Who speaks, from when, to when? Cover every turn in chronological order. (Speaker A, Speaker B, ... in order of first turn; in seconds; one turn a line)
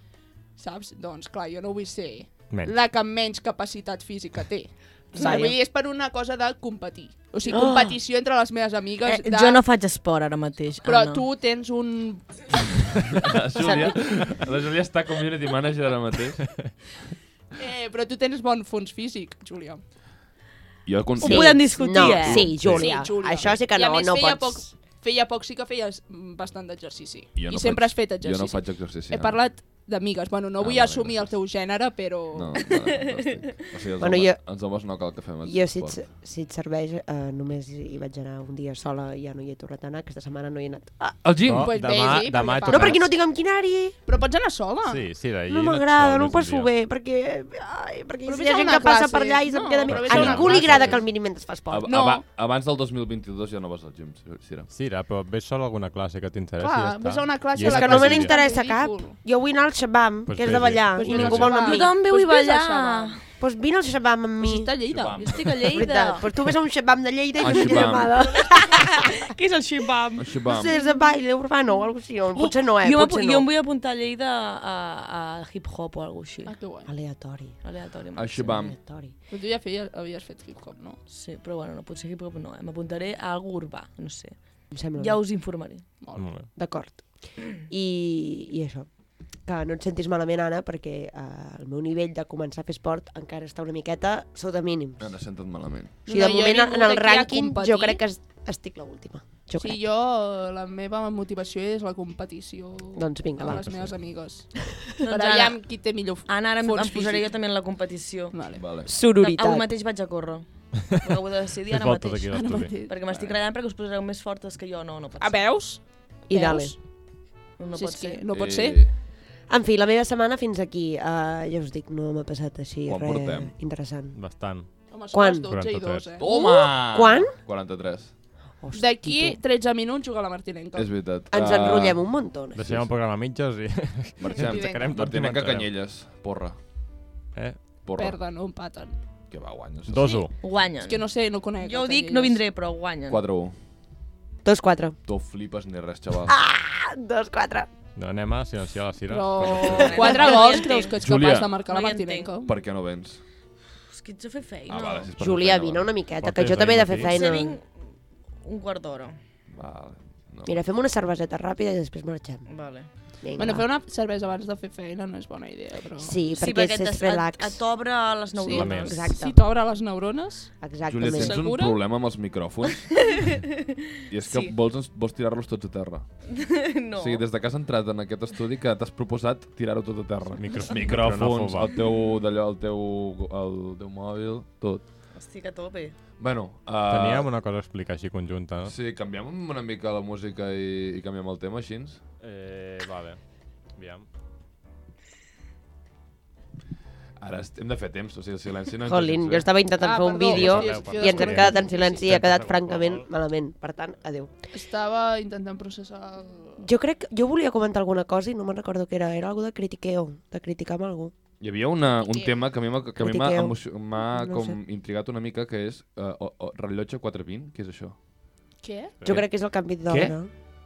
Speaker A: 0.6-9.6
Speaker B: 2.5-2.8
Speaker C: 5.1-5.6
Speaker C: 7.5-8.0
Speaker D: 9.0-11.2
Speaker A: 10.8-12.7
Speaker E: 13.1-16.5
Speaker C: 13.6-14.0
Speaker A: 17.6-19.8
Speaker E: 20.9-23.6
Speaker D: 21.2-22.5
Speaker C: 21.2-24.7
Speaker A: 21.8-32.7
Speaker E: 27.4-29.4
Speaker E: 30.6-31.4
Speaker E: 32.3-36.0
Speaker C: 34.0-34.4
Speaker C: 35.4-41.2
Speaker E: 41.2-41.8
Speaker B: 41.4-43.1
Speaker A: 41.6-43.0
Speaker C: 42.6-43.9
Speaker A: 44.0-45.1
Speaker B: 44.8-46.7
Speaker C: 45.5-51.9
Speaker A: 48.2-51.0
Speaker B: 49.9-51.0
Speaker E: 49.9-50.8
Speaker E: 51.7-54.7
Speaker A: 51.9-52.2
Speaker B: 54.7-58.4
Speaker A: 56.6-59.2
Speaker C: 57.6-61.9
Speaker B: 60.2-61.5
Speaker A: 60.9-63.2
Speaker D: 61.4-63.2
Speaker C: 63.4-64.7
Speaker A: 64.4-65.7
Speaker E: 64.9-65.4
Speaker D: 65.2-66.3
Speaker C: 65.6-69.3
Speaker E: 67.4-68.1
Speaker D: 67.9-70.4
Speaker E: 70.2-70.7
Speaker C: 70.4-73.5
Speaker D: 72.4-76.5
Speaker A: 76.5-76.9
Speaker C: 76.8-77.5
Speaker D: 77.6-78.6
Speaker E: 78.2-78.7
Speaker C: 78.4-79.1
Speaker A: 79.3-81.0
Speaker D: 81.1-84.3
Speaker C: 84.7-85.2
Speaker D: 84.9-85.8
Speaker A: 86.0-86.3
Speaker B: 86.2-86.5
Speaker C: 86.5-88.9
Speaker C: 89.5-95.1
Speaker E: 95.0-95.9
Speaker A: 96.0-98.0
Speaker C: 96.1-99.8
Speaker A: 99.6-107.3
Speaker C: 102.9-103.9
Speaker B: 103.4-103.9
Speaker D: 105.0-105.7
Speaker D: 106.2-108.4
Speaker A: 108.3-108.6
Speaker E: 108.5-108.9
Speaker C: 108.8-109.7
Speaker D: 109.2-115.5
Speaker B: 111.7-112.7
Speaker A: 112.3-113.3
Speaker A: 115.2-116.8
Speaker C: 116.3-116.8
Speaker D: 117.6-118.2
Speaker A: 117.7-118.8
Speaker E: 118.3-118.9
Speaker C: 119.5-124.2
Speaker E: 122.8-123.5
Speaker B: 124.1-124.8
Speaker A: 124.9-126.2
Speaker C: 125.1-125.5
Speaker B: 125.5-126.1
Speaker E: 126.2-128.1
Speaker C: 126.2-127.3
Speaker C: 128.6-129.4
Speaker A: 128.7-130.9
Speaker E: 130.7-132.0
Speaker C: 131.3-132.6
Speaker B: 132.5-135.7
Speaker E: 132.6-132.9
Speaker E: 134.2-136.6
Speaker A: 134.3-135.0
Speaker E: 137.8-138.2
Speaker A: 138.0-138.9
Speaker E: 139.3-140.2
Speaker B: 139.9-140.3
Speaker D: 140.1-143.2
Speaker A: 140.8-142.4
Speaker E: 143.1-143.5
Speaker C: 144.4-145.0
Speaker E: 145.1-146.3
Speaker C: 146.3-147.7
Speaker B: 147.9-150.1
Speaker A: 149.1-152.5
Speaker E: 149.4-149.9
Speaker D: 149.5-151.0
Speaker E: 150.8-151.5
Speaker D: 151.6-152.3
Speaker E: 152.4-153.2
Speaker D: 153.9-155.1
Speaker E: 154.7-155.9
Speaker C: 155.2-157.6
Speaker B: 156.2-157.2
Speaker D: 157.0-157.7
Speaker D: 158.4-159.2
Speaker E: 159.5-160.6
Speaker C: 160.4-162.4
Speaker D: 162.5-162.9
Speaker C: 163.2-163.7
Speaker A: 163.4-166.2
Speaker C: 166.0-167.6
Speaker D: 166.3-169.1
Speaker A: 168.4-171.8
Speaker C: 168.4-169.4
Speaker B: 168.5-169.1
Speaker C: 170.6-171.4
Speaker E: 170.9-173.0
Speaker D: 172.9-174.5
Speaker E: 174.1-176.2
Speaker D: 176.3-177.2
Speaker E: 177.0-184.8
Speaker B: 180.4-181.7
Speaker D: 185.1-186.0
Speaker E: 186.2-187.3
Speaker B: 186.9-188.7
Speaker E: 188.7-192.0
Speaker B: 192.2-193.2
Speaker B: 193.8-194.1
Speaker E: 197.2-199.5
Speaker C: 198.8-204.3
Speaker A: 199.8-201.9
Speaker B: 200.3-203.1
Speaker A: 204.5-206.6
Speaker C: 206.6-211.1
Speaker E: 211.4-217.9
Speaker A: 212.0-212.3
Speaker C: 213.0-214.6
Speaker A: 218.6-218.9
Speaker C: 219.0-220.3
Speaker E: 219.9-220.2